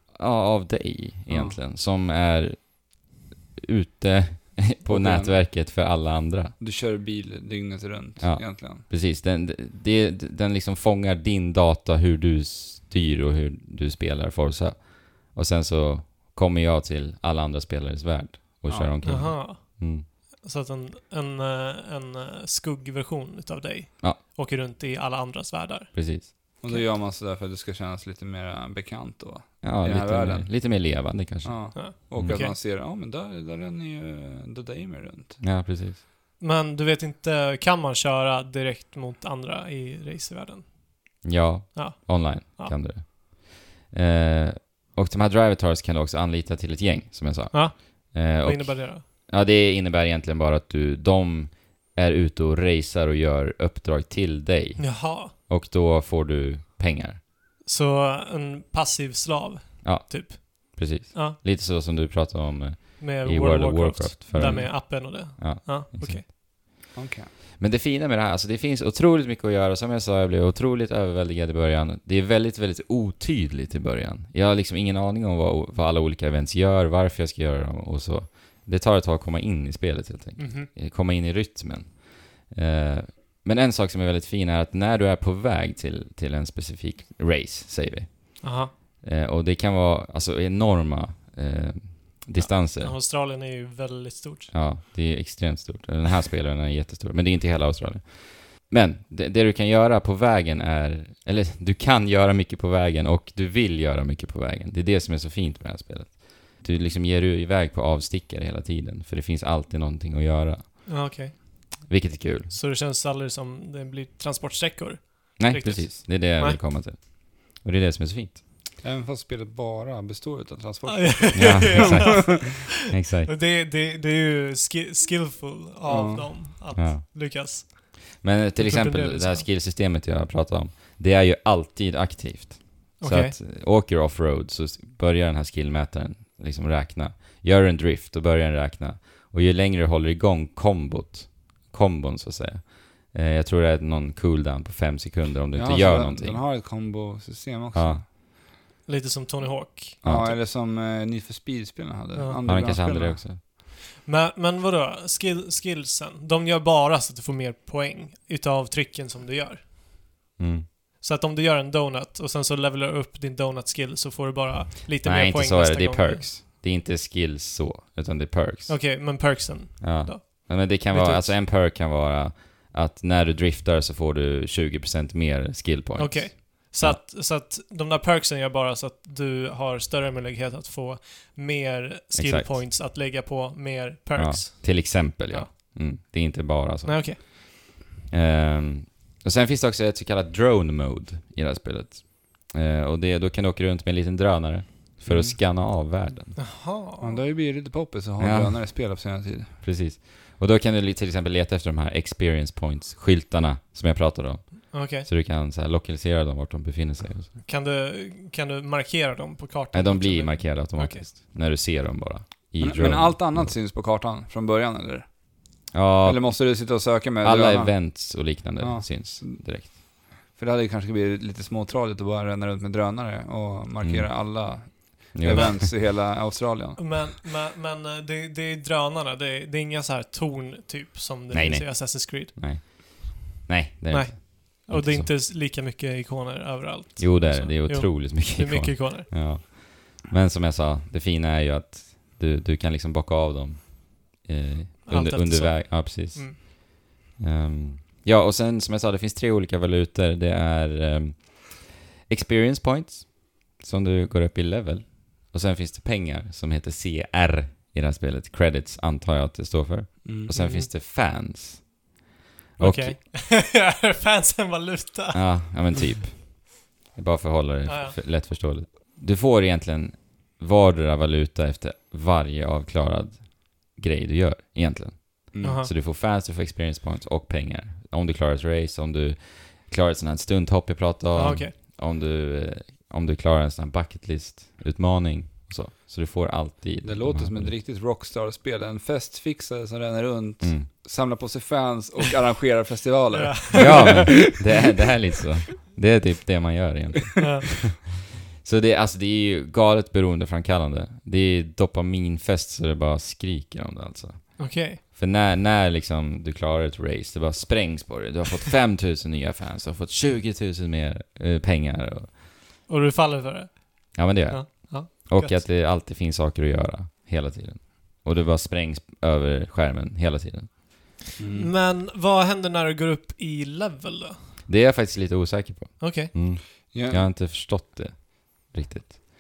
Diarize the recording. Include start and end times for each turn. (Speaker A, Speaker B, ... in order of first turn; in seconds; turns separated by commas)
Speaker A: 0.2-6.5, Speaker B: 1.3-1.6, Speaker B: 4.8-5.4, Speaker B: 6.6-8.9, Speaker A: 8.2-20.1, Speaker B: 18.7-19.2, Speaker C: 19.0-26.9, Speaker A: 25.9-26.3, Speaker B: 26.6-35.4, Speaker A: 29.6-32.4, Speaker C: 31.7-32.6, Speaker A: 35.4-36.0, Speaker C: 36.4-41.2, Speaker A: 41.2-57.2, Speaker C: 41.7-42.8, Speaker C: 47.5-49.0, Speaker C: 54.8-55.3, Speaker C: 57.6-61.4, Speaker A: 59.8-66.8, Speaker C: 63.0-66.3, Speaker B: 64.4-64.7, Speaker B: 66.9-67.3, Speaker A: 67.6-93.0, Speaker C: 80.4-80.7, Speaker C: 88.4-88.7, Speaker C: 92.4-94.5, Speaker A: 94.5-111.0, Speaker C: 110.9-111.9, Speaker A: 111.9-112.6, Speaker C: 112.5-116.6, Speaker A: 115.4-118.4, Speaker B: 118.8-122.3, Speaker C: 120.8-122.5, Speaker A: 121.3-123.3, Speaker C: 123.3-129.5, Speaker B: 125.9-126.4, Speaker A: 126.8-146.4, Speaker C: 133.0-133.4, Speaker B: 145.6-148.1, Speaker A: 147.7-148.0, Speaker C: 148.8-150.3, Speaker B: 150.0-153.2, Speaker A: 150.0-150.3, Speaker C: 152.1-152.4, Speaker A: 152.4-153.4, Speaker C: 153.6-160.1, Speaker A: 160.4-160.7, Speaker C: 161.0-166.3, Speaker A: 165.0-169.3, Speaker C: 168.7-171.3, Speaker A: 169.8-177.0, Speaker C: 176.0-186.0, Speaker A: 182.2-182.6, Speaker A: 184.2-187.6, Speaker C: 186.8-187.2, Speaker A: 188.1-196.4, Speaker B: 195.1-195.4, Speaker C: 196.4-197.2, Speaker B: 197.0-199.6, Speaker A: 198.2-207.4, Speaker C: 204.7-205.1, Speaker C: 207.4-211.1, Speaker A: 209.7-213.5, Speaker B: 212.6-226.9, Speaker A: 215.7-219.8, Speaker A: 223.8-225.7, Speaker C: 225.3-225.6, Speaker C: 226.8-232.3, Speaker A: 231.3-235.1, Speaker C: 233.9-239.1, Speaker A: 237.0-261.9, Speaker C: 244.9-246.4, Speaker B: 260.0-260.3, Speaker C: 260.3-260.7, Speaker A: 262.6-263.0, Speaker C: 262.6-265.4, Speaker A: 265.1-287.5, Speaker C: 267.6-268.0, Speaker B: 275.3-275.6, Speaker C: 275.4-275.7, Speaker C: 281.1-281.6, Speaker B: 286.8-294.4, Speaker A: 290.4-290.7, Speaker C: 293.1-294.4, Speaker A: 293.6-312.2, Speaker C: 297.2-297.6, Speaker C: 304.4-304.8, Speaker C: 312.7-315.4, Speaker A: 313.9-320.6, Speaker B: 321.2-321.5, Speaker C: 321.3-324.3, Speaker A: 324.5-329.0, Speaker C: 325.8-326.1, Speaker B: 326.7-327.1